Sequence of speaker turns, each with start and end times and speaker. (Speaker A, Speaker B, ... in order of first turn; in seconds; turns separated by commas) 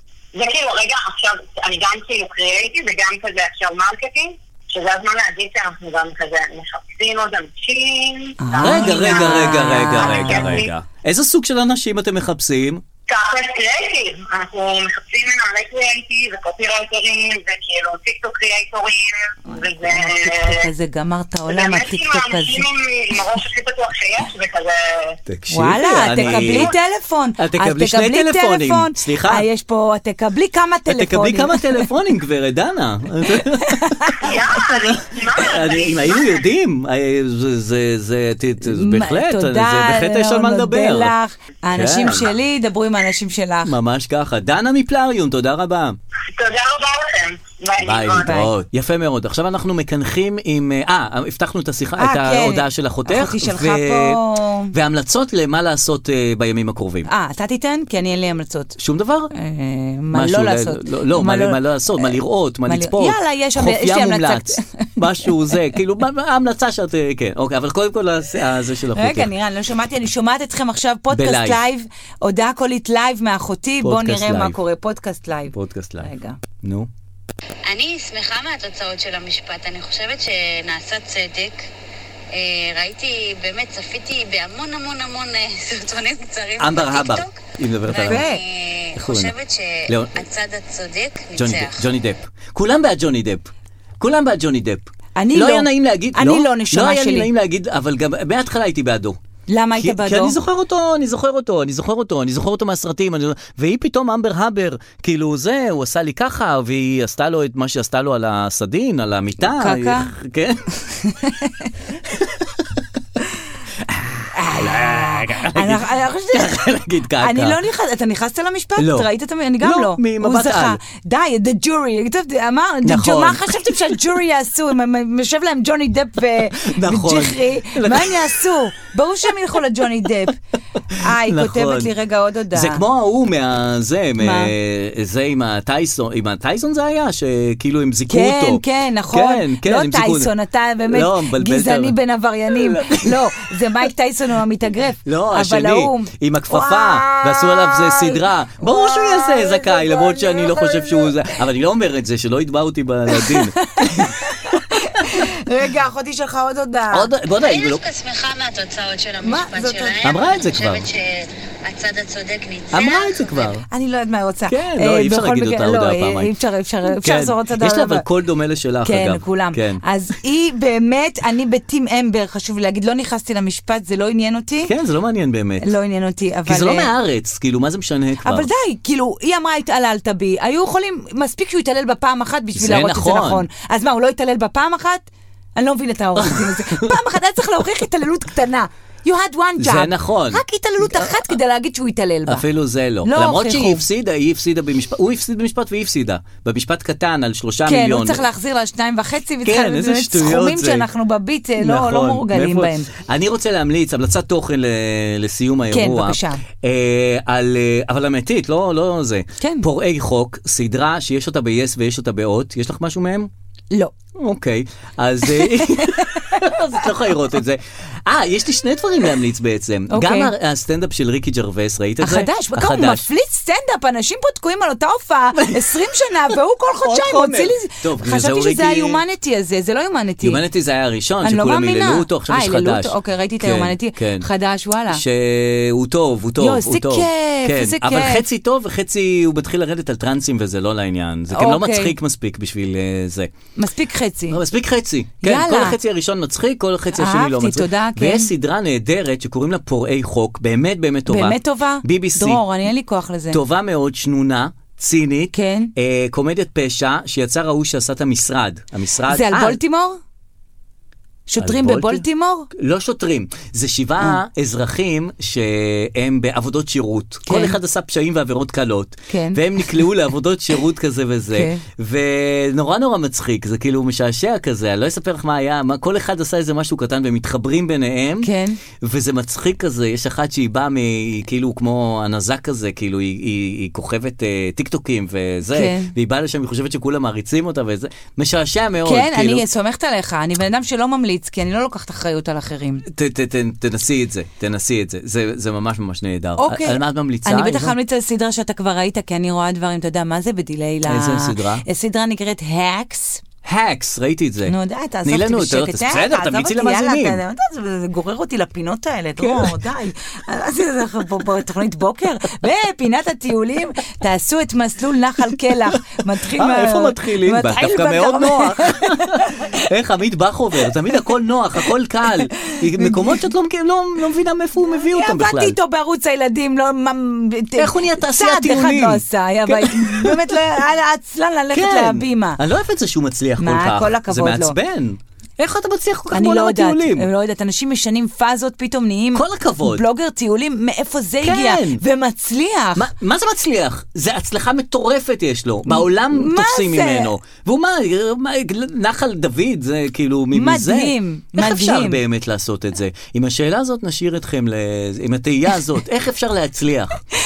Speaker A: 0.3-10.7, Speaker B: 8.4-10.7, Speaker C: 8.6-12.8, Speaker A: 13.1-20.7, Speaker B: 19.5-22.6, Speaker A: 21.5-25.1, Speaker C: 25.3-26.7, Speaker B: 25.5-31.9, Speaker A: 26.2-26.7, Speaker C: 27.4-29.4, Speaker C: 30.9-41.1, Speaker B: 33.4-34.3, Speaker A: 34.2-36.4, Speaker B: 38.6-43.7, Speaker C: 41.7-42.3, Speaker C: 43.6-46.0, Speaker A: 46.3-48.3, Speaker C: 47.8-54.2, Speaker B: 48.2-48.5, Speaker B: 52.0-54.7, Speaker C: 54.7-57.1, Speaker B: 57.0-58.8, Speaker C: 58.8-59.3, Speaker B: 59.3-62.1, Speaker C: 60.1-69.3, Speaker B: 62.7-65.5, Speaker B: 68.9-76.4, Speaker C: 71.1-71.6, Speaker C: 73.8-74.6, Speaker C: 75.5-76.1, Speaker C: 76.6-76.9, Speaker D: 77.7-81.6, Speaker D: 82.3-91.8, Speaker C: 86.6-88.2, Speaker B: 88.0-88.4, Speaker C: 88.9-89.3, Speaker C: 89.9-90.2, Speaker C: 91.3-99.2, Speaker B: 95.2-97.3, Speaker B: 99.5-100.4, Speaker C: 99.7-110.7, Speaker B: 109.4-110.1, Speaker B: 110.9-111.7, Speaker C: 112.1-112.8, Speaker C: 113.8-117.6, Speaker B: 114.3-116.6, Speaker B: 117.2-130.3, Speaker C: 118.8-119.1, Speaker C: 119.6-120.8, Speaker C: 122.8-124.0, Speaker C: 126.6-128.4, Speaker C: 130.8-131.9, Speaker B: 130.9-132.8, Speaker C: 132.5-140.3, Speaker B: 134.2-134.5, Speaker B: 138.1-151.1, Speaker C: 140.8-143.4, Speaker C: 145.0-155.3, Speaker B: 153.1-157.1, Speaker C: 156.9-157.8, Speaker D: 157.4-163.6, Speaker B: 159.2-160.0, Speaker C: 160.0-160.9, Speaker C: 162.7-163.6, Speaker B: 163.7-168.0, Speaker C: 164.5-166.3, Speaker C: 166.9-169.8, Speaker B: 168.8-174.7, Speaker C: 174.6-175.7, Speaker B: 175.6-176.9, Speaker C: 176.4-178.5, Speaker B: 178.2-192.4, Speaker C: 182.5-183.4, Speaker C: 186.2-187.0, Speaker C: 189.6-191.3, Speaker C: 192.2-198.2, Speaker B: 193.0-193.8, Speaker B: 197.7-202.9, Speaker C: 199.4-200.9, Speaker C: 201.6-213.3, Speaker B: 205.7-206.4, Speaker B: 209.4-209.7, Speaker C: 214.2-223.0, Speaker B: 215.3-216.4, Speaker B: 219.9-220.3, Speaker B: 222.0-230.4, Speaker C: 225.3-225.7, Speaker C: 226.8-229.0, Speaker C: 230.2-234.3, Speaker B: 231.2-235.0, Speaker C: 234.9-243.3, Speaker B: 236.4-238.2, Speaker B: 241.3-241.9, Speaker B: 243.6-244.4, Speaker C: 244.3-252.4, Speaker B: 245.2-245.8, Speaker B: 246.9-248.3, Speaker B: 251.1-253.4, Speaker C: 253.3-259.6, Speaker B: 255.3-255.7, Speaker B: 259.1-260.0, Speaker B: 261.3-262.5, Speaker C: 261.4-289.4, Speaker B: 267.2-267.6, Speaker B: 269.1-269.4, Speaker B: 271.3-271.6, Speaker B: 278.2-278.6, Speaker B: 285.5-285.9, Speaker B: 288.8-292.9, Speaker C: 292.9-297.7, Speaker B: 296.4-303.2, Speaker C: 300.9-301.6, Speaker C: 303.4-307.2, Speaker B: 304.4-319.3, Speaker C: 309.2-309.5, Speaker C: 315.4-325.6, Speaker B: 322.5-323.2, Speaker B: 324.9-332.4, Speaker C: 327.6-330.4, Speaker C: 331.5-337.1, Speaker B: 333.4-334.6, Speaker B: 336.1-342.9, Speaker C: 339.1-339.8, Speaker C: 341.2-341.8, Speaker C: 342.8-357.0, Speaker B: 345.7-347.1, Speaker B: 350.3-352.0